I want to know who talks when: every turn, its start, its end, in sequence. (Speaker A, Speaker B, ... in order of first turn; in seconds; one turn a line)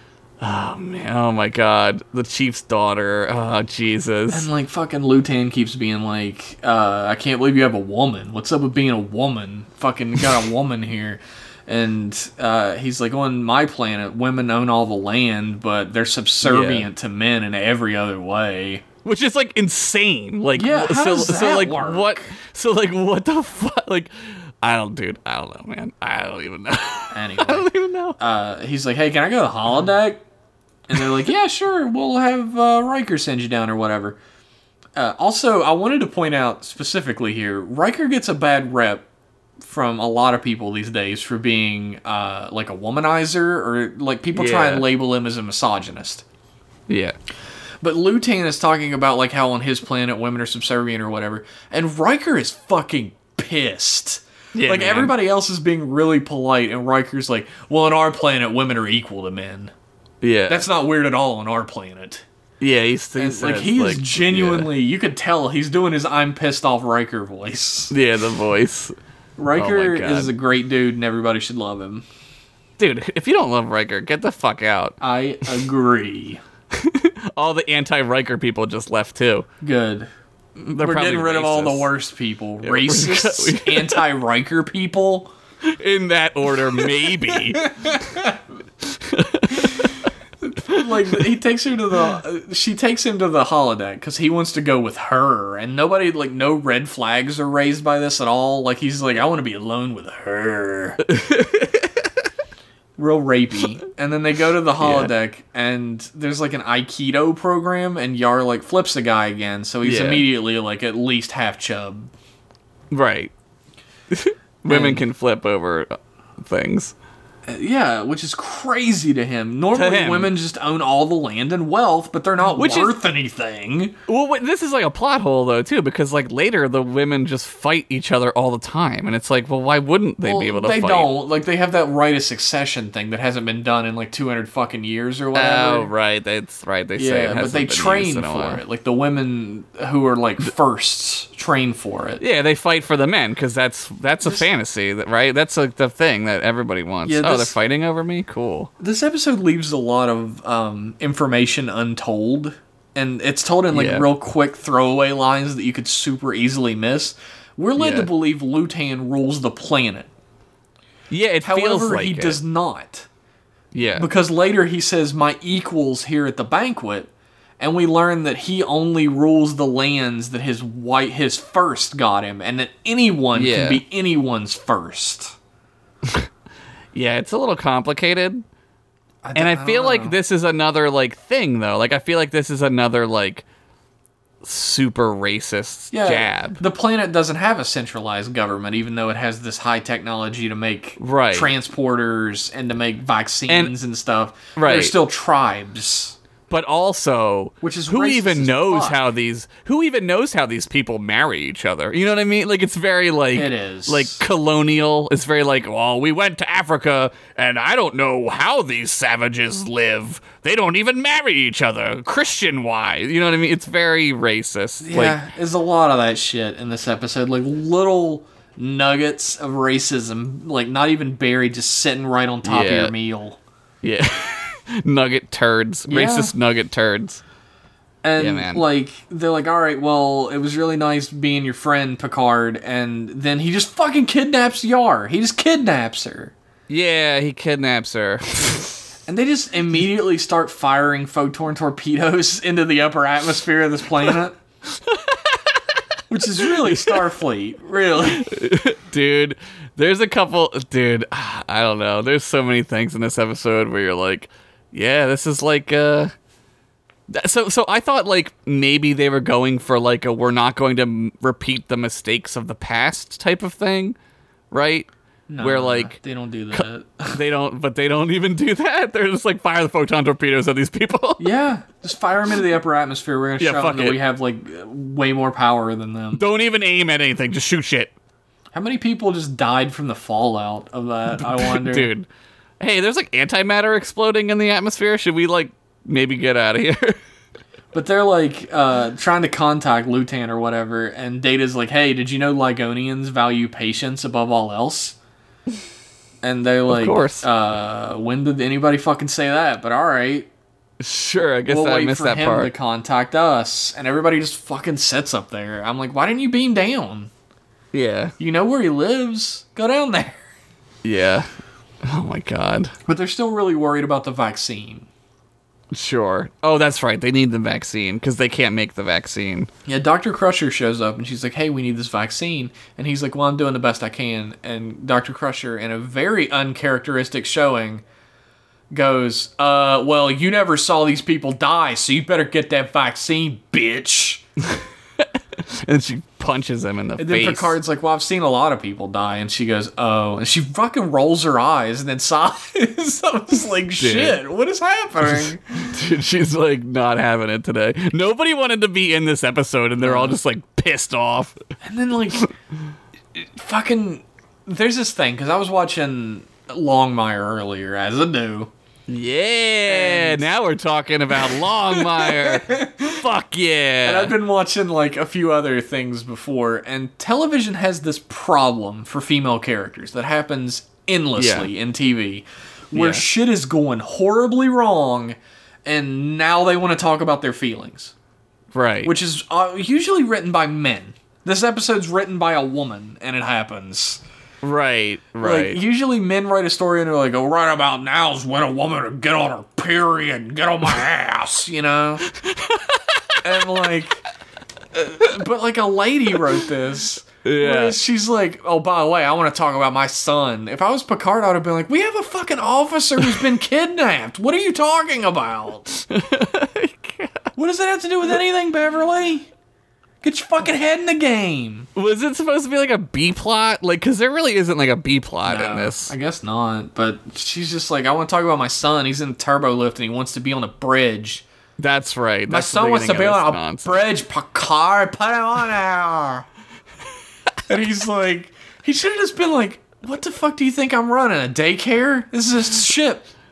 Speaker A: 0.4-4.5
Speaker B: 4.3-18.8
Speaker A: 16.4-16.9
Speaker A: 19.0-28.2
Speaker B: 20.5-22.3
Speaker B: 27.1-30.2
Speaker B: 30.9-34.2
Speaker B: 35.0-39.0
Speaker B: 39.6-46.2
Speaker A: 44.3-44.8
Speaker A: 46.9-47.1
Speaker B: 47.8-59.7
Speaker A: 54.5-55.1
Speaker A: 60.2-60.6
Speaker B: 60.5-62.2
Speaker A: 62.6-64.7
Speaker B: 63.1-67.9
Speaker A: 67.9-68.9
Speaker B: 69.4-72.0
Speaker A: 69.5-70.3
Speaker A: 72.8-75.0
Speaker B: 75.0-76.4
Speaker A: 76.7-79.5
Speaker B: 79.6-85.3
Speaker A: 80.8-81.9
Speaker A: 82.6-84.0
Speaker A: 85.6-87.9
Speaker B: 87.6-88.4
Speaker A: 88.8-89.9
Speaker B: 90.4-101.0
Speaker A: 90.7-91.2
Speaker A: 101.1-102.3
Speaker B: 103.0-112.1
Speaker A: 104.8-105.1
Speaker A: 109.8-110.2
Speaker A: 112.9-113.3
Speaker A: 114.1-116.9
Speaker B: 114.7-115.0
Speaker B: 117.5-124.0
Speaker A: 119.7-120.3
Speaker A: 122.5-123.0
Speaker A: 124.1-131.1
Speaker B: 130.2-135.9
Speaker A: 135.3-138.6
Speaker B: 137.0-142.2
Speaker A: 142.2-148.7
Speaker B: 147.0-147.6
Speaker B: 148.8-160.1
Speaker A: 153.7-154.1
Speaker A: 157.8-158.1
Speaker A: 161.1-162.4
Speaker B: 161.4-163.1
Speaker A: 163.7-164.1
Speaker B: 164.0-175.3
Speaker A: 173.3-173.8
Speaker A: 176.9-178.4
Speaker B: 179.2-180.1
Speaker A: 179.3-183.4
Speaker A: 184.4-186.6
Speaker B: 185.9-196.2
Speaker A: 191.0-191.5
Speaker A: 194.6-194.9
Speaker A: 196.5-215.2
Speaker B: 197.6-199.0
Speaker B: 203.3-204.2
Speaker B: 214.8-223.4
Speaker A: 222.4-222.9
Speaker A: 223.8-227.2
Speaker B: 225.9-226.3
Speaker B: 228.0-236.3
Speaker A: 228.2-228.6
Speaker A: 236.7-238.8
Speaker B: 239.1-244.3
Speaker A: 244.7-245.8
Speaker B: 246.1-248.3
Speaker A: 246.4-247.0
Speaker A: 248.1-256.1
Speaker A: 257.1-263.9
Speaker A: 264.5-264.9
Speaker B: 265.3-267.2
Speaker A: 265.4-266.0
Speaker A: 267.1-271.3
Speaker B: 271.2-276.2
Speaker A: 273.4-274.0
Speaker A: 276.1-277.9
Speaker B: 278.5-281.9
Speaker A: 281.1-282.1
Speaker A: 282.6-287.0
Speaker B: 287.7-294.9
Speaker B: 296.2-300.3
Speaker A: 296.7-297.2
Speaker A: 300.8-302.5
Speaker B: 301.5-307.1
Speaker A: 307.7-308.1
Speaker B: 308.2-310.2
Speaker A: 310.8-311.3
Speaker A: 311.8-312.7
Speaker B: 312.9-314.9
Speaker A: 315.7-319.5
Speaker B: 319.6-327.8
Speaker B: 328.7-334.2
Speaker A: 334.5-337.6
Speaker B: 337.0-345.7
Speaker A: 343.8-344.2
Speaker A: 345.0-351.4
Speaker B: 349.8-350.2
Speaker B: 351.6-352.3
Speaker B: 353.1-358.5
Speaker A: 358.9-364.1
Speaker B: 359.6-360.3
Speaker B: 361.3-363.0
Speaker B: 363.8-377.9
Speaker A: 371.2-371.5
Speaker A: 372.7-373.1
Speaker A: 378.5-378.9
Speaker B: 378.8-384.0
Speaker A: 384.4-385.6
Speaker B: 385.2-392.1
Speaker A: 392.1-393.2
Speaker B: 393.2-394.0
Speaker B: 394.7-405.8
Speaker A: 397.2-397.8
Speaker A: 405.9-407.3
Speaker B: 407.4-409.3
Speaker B: 410.0-411.7
Speaker A: 411.7-415.9
Speaker B: 415.2-421.2
Speaker A: 421.6-423.8
Speaker B: 422.3-426.3
Speaker B: 427.5-433.1